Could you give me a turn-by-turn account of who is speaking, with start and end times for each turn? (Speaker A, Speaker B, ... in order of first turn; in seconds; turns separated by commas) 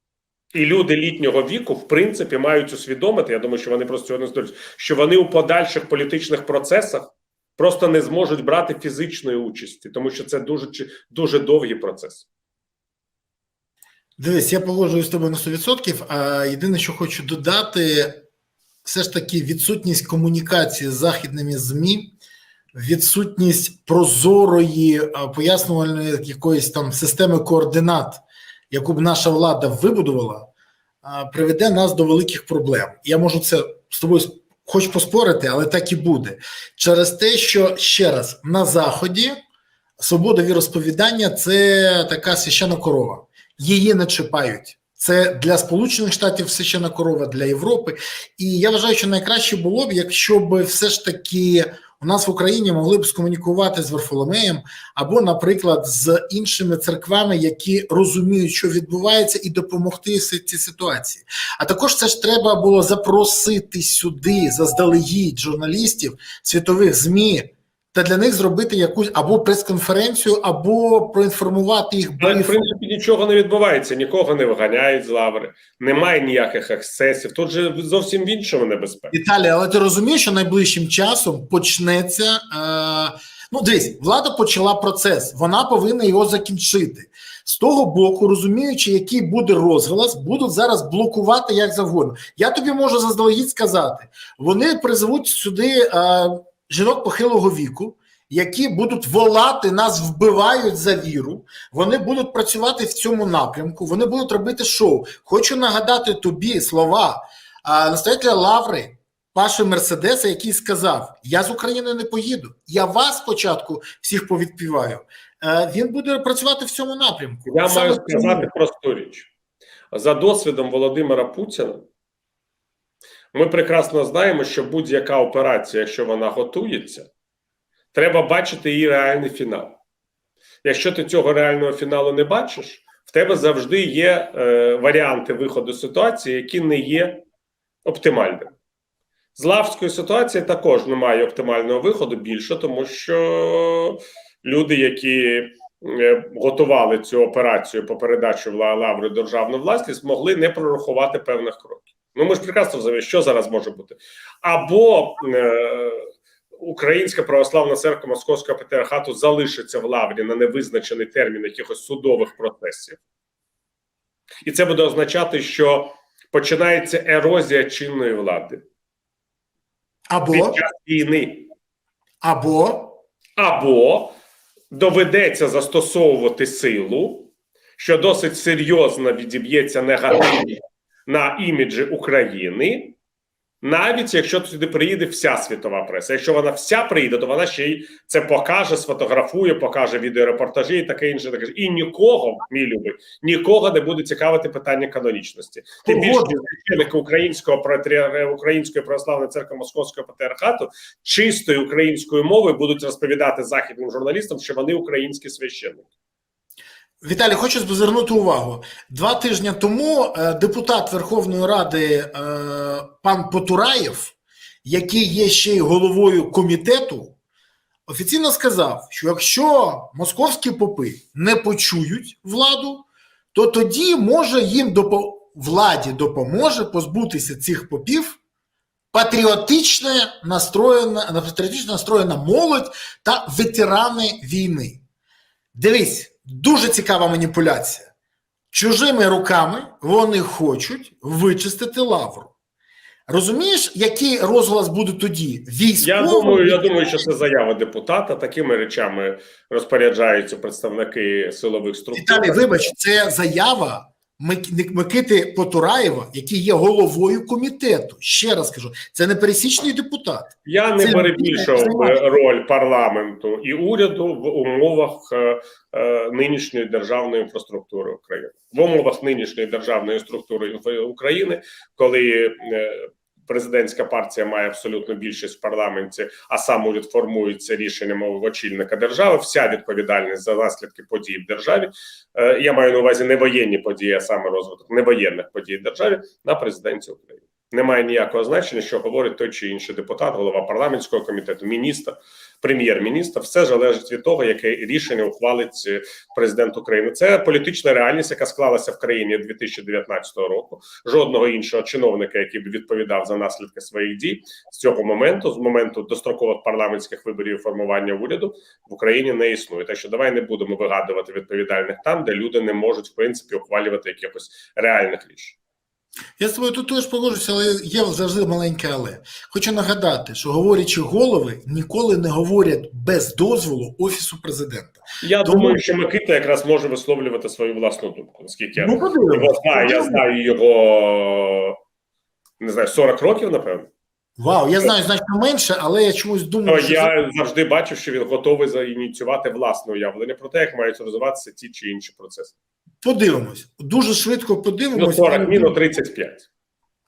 Speaker A: 0.5-12.3, Speaker B: 14.2-18.2, Speaker B: 18.8-22.1, Speaker B: 22.7-30.5, Speaker B: 31.0-39.4, Speaker B: 40.0-72.5, Speaker A: 72.2-79.1, Speaker B: 79.1-118.5, Speaker A: 117.5-119.3, Speaker A: 119.9-121.8, Speaker A: 123.3-127.1, Speaker A: 127.9-129.8, Speaker A: 130.6-137.2, Speaker A: 137.8-138.5, Speaker A: 139.3-156.1, Speaker A: 156.6-163.0, Speaker A: 164.4-168.6, Speaker B: 170.1-170.6, Speaker A: 170.3-171.5, Speaker B: 172.2-173.0, Speaker A: 173.4-174.1, Speaker A: 174.7-182.9, Speaker A: 183.6-205.9, Speaker B: 195.8-196.3, Speaker B: 207.0-217.1, Speaker B: 217.9-228.2, Speaker B: 228.9-234.8, Speaker B: 235.5-237.9, Speaker B: 238.5-242.3, Speaker B: 243.1-246.7, Speaker A: 245.8-252.7, Speaker B: 251.9-262.0, Speaker A: 260.4-315.4, Speaker B: 316.2-325.6, Speaker A: 325.0-331.6, Speaker B: 328.6-330.0, Speaker A: 332.4-333.7, Speaker B: 334.2-336.9, Speaker A: 336.4-342.3, Speaker B: 342.8-345.6, Speaker A: 344.7-346.3